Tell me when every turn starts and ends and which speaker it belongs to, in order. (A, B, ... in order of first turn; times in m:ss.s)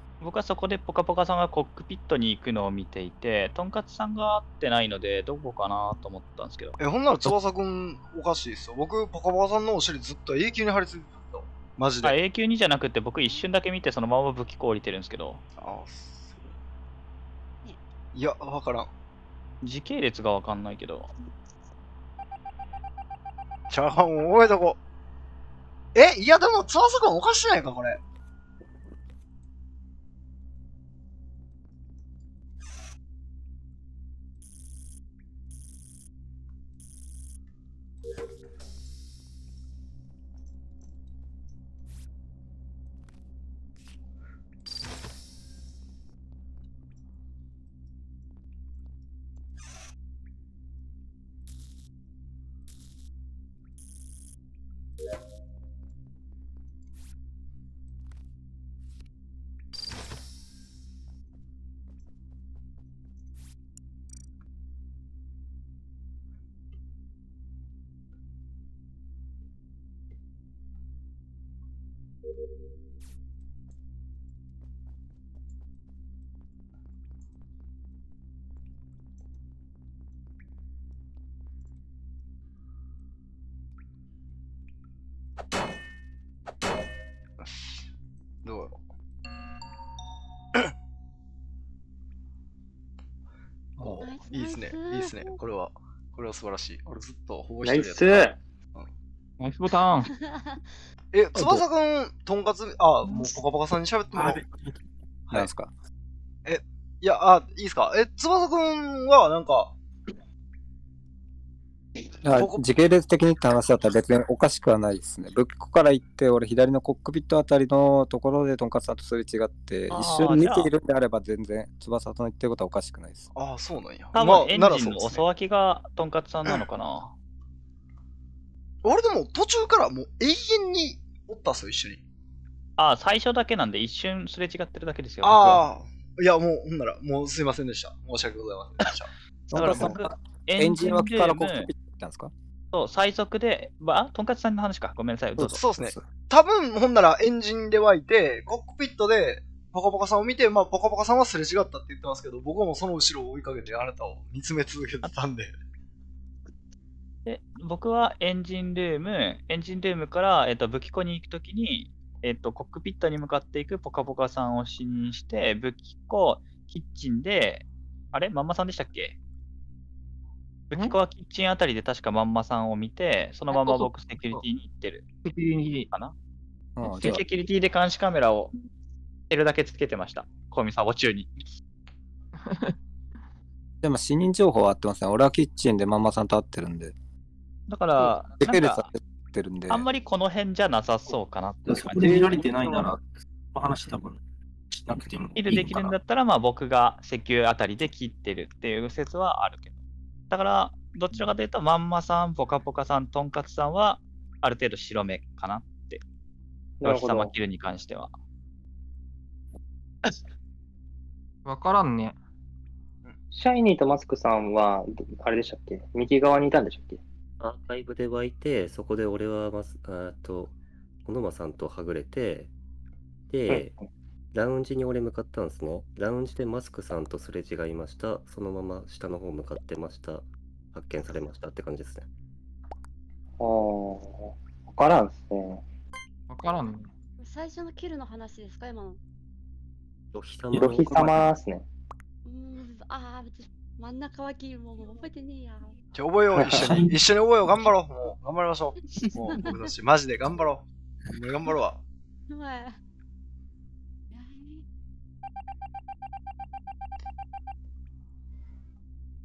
0:00.2-0:06.8 A
0:06.8-0:12.2 B
0:12.0-0:15.4 A
0:15.6-0:16.5 B
0:18.1-0:18.9 B
0:19.6-0:21.1 A
0:23.7-0:24.8 B
0:25.9-0:28.0 B
1:27.4-1:27.8 B
1:28.4-1:28.8 B
1:33.8-1:38.9 B
1:33.8-1:34.0 C
1:34.0-1:35.4 D
1:37.6-1:38.4 E
1:39.4-1:40.1 F
1:40.1-1:40.6 D
1:41.1-1:44.4 B
1:41.4-1:41.6 C
1:44.1-1:44.8 G
1:45.3-1:45.7 C
1:46.4-1:49.7 B
1:52.2-2:03.3 C
1:52.3-1:52.6 B
1:59.9-2:00.7 A
2:03.3-2:05.2 B
2:04.1-2:07.1 A
2:08.8-2:12.0 B
2:12.8-2:15.6 A
2:15.2-2:19.1 B
2:19.5-2:21.7 A
2:19.5-2:22.3 C
2:22.7-2:25.6 A
2:25.4-2:35.5 B
2:37.2-2:49.2 A
2:50.7-2:55.0 A
2:53.5-2:54.4 F
2:55.2-2:55.9 F
2:55.9-2:56.1 A
2:56.8-2:57.2 C
2:56.8-2:58.5 A
2:59.3-3:01.4 A
3:02.4-3:02.7 F
3:03.8-3:06.9 C
3:07.7-3:08.9 A
3:08.0-3:09.9 C
3:09.7-3:12.8 A
3:11.6-3:16.0 G
3:15.4-3:19.7 A
3:20.3-3:26.0 A
3:26.8-3:27.3 E
3:26.8-3:28.1 A
3:31.4-3:32.2 F
3:33.3-3:37.0 E
3:37.4-3:42.5 H
3:43.3-3:43.7 H
3:43.5-3:43.8 E
3:44.3-3:52.1 H
3:53.4-3:55.6 E
3:56.3-3:56.9 F
3:57.2-3:59.0 D
4:00.1-4:01.3 H
4:00.5-4:00.8 G
4:00.6-4:01.6 E
4:02.2-4:05.8 D
4:05.9-4:10.6 B
4:06.3-4:07.0 G
4:09.0-4:09.7 D
4:11.1-4:11.8 B
4:12.3-4:12.8 D
4:14.1-4:14.6 D